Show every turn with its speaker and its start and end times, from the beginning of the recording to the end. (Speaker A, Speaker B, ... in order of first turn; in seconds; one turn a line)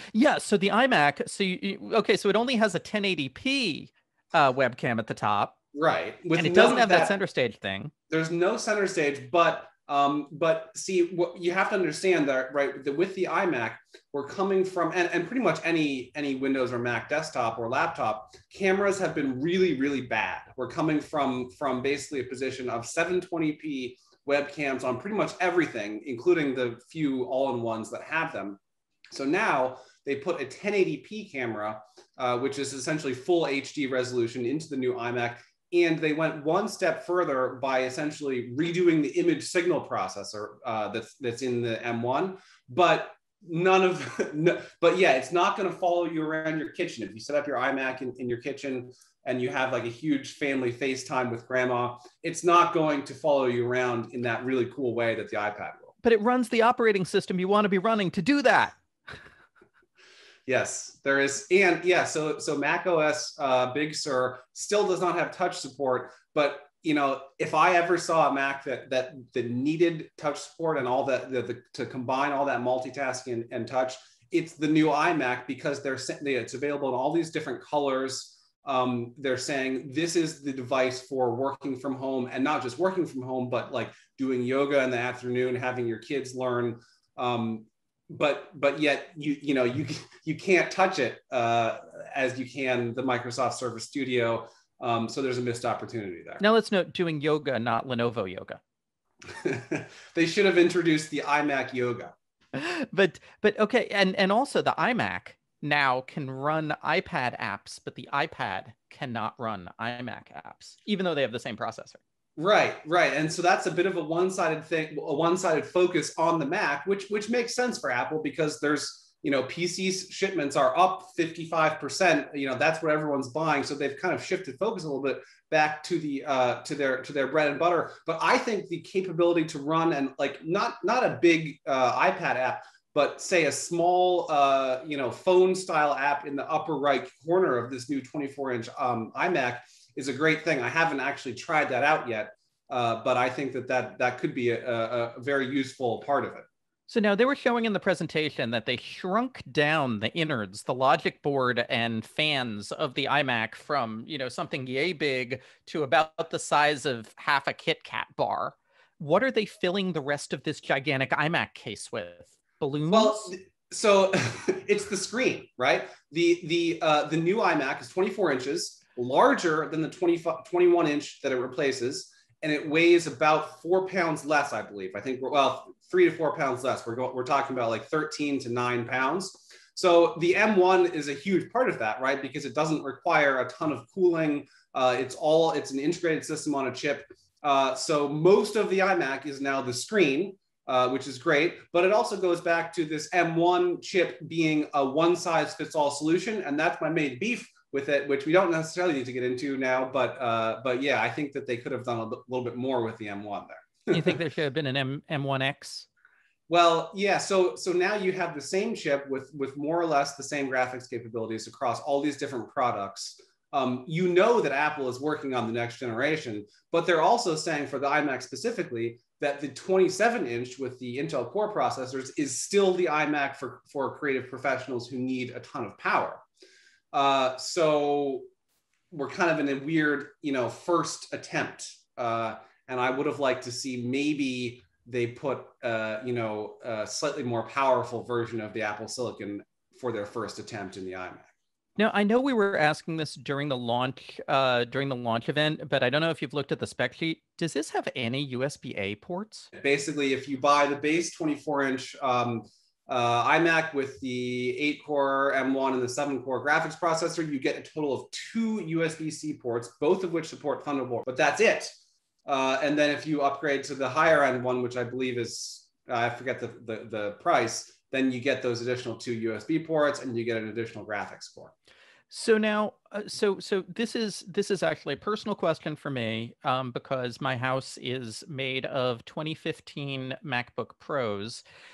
Speaker A: 0.1-5.5
Speaker B: 5.7-7.2
Speaker A: 6.3-7.9
Speaker B: 8.1-28.6
Speaker B: 29.1-55.9
Speaker A: 56.0-58.7
Speaker B: 60.5-96.4
Speaker A: 96.4-98.6
Speaker B: 99.3-102.1
Speaker A: 102.5-112.0
Speaker B: 112.4-146.4
Speaker A: 146.9-163.3
Speaker B: 162.9-204.2
Speaker A: 203.9-205.9
Speaker B: 206.5-226.2
Speaker B: 226.9-228.3
Speaker B: 228.9-241.3
Speaker A: 241.8-249.5
Speaker B: 249.6-261.7
Speaker B: 262.2-271.5
Speaker A: 272.1-281.4